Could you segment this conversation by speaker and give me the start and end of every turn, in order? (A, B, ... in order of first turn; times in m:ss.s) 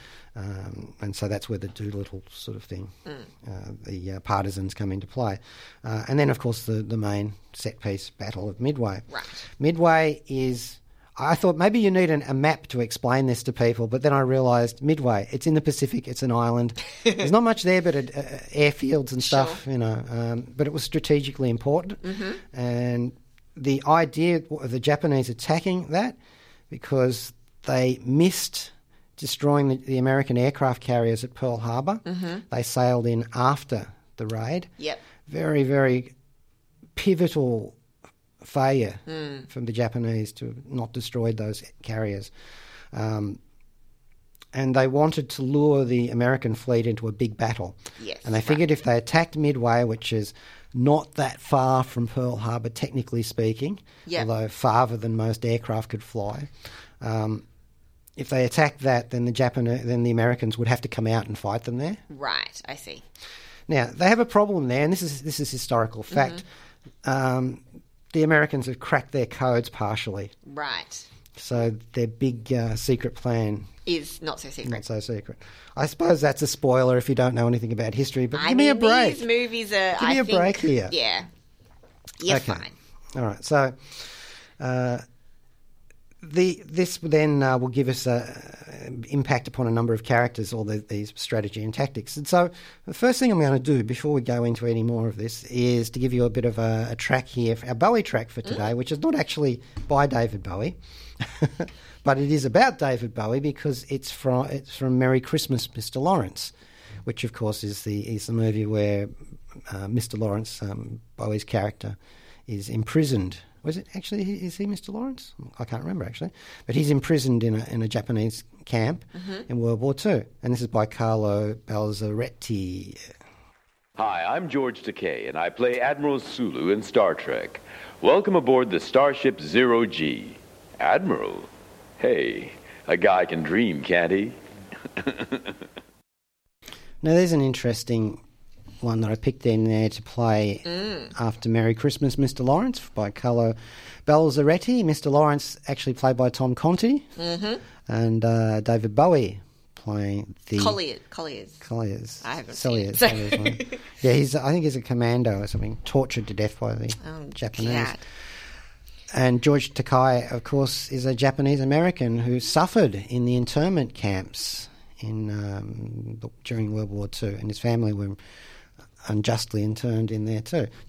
0:00.3-0:09.0 A
0:09.1-0:09.4 B
0:09.6-0:26.2 A
0:19.2-0:19.6 B
0:22.0-0:22.4 B
0:26.7-0:34.7 A
0:32.0-0:32.4 B
0:35.2-0:36.1 A
0:37.0-0:37.8 A
0:38.4-0:42.3 A
0:39.1-0:39.5 B
0:42.9-0:43.4 A
0:44.5-0:56.5 A
0:48.0-0:48.6 B
0:57.0-0:57.4 A
0:58.2-1:02.0 A
1:02.1-1:03.0 B
1:03.7-1:06.4 A
1:06.1-1:06.4 B
1:07.0-1:07.6 A
1:08.1-1:10.3 A
1:10.4-1:11.0 B
1:11.4-1:13.7 A
1:13.8-1:14.8 B
1:14.6-1:19.2 A
1:18.3-1:21.3 B
1:20.0-1:20.9 A
1:22.2-1:22.7 B
1:22.2-1:25.0 A
1:26.2-1:46.5 A
1:47.0-1:49.1 A
1:49.7-2:03.0 A
2:04.0-2:14.4 C
2:15.0-2:15.5 C
2:17.0-2:18.2 A
2:18.8-2:27.1 A
2:20.6-2:21.1 B
2:27.2-2:27.6 B
2:27.8-2:30.8 A
2:30.6-2:31.6 B
2:31.6-2:38.0 A
2:32.2-2:33.8 B
2:37.0-2:38.0 B
2:39.1-2:48.2 A
2:49.0-2:50.7 A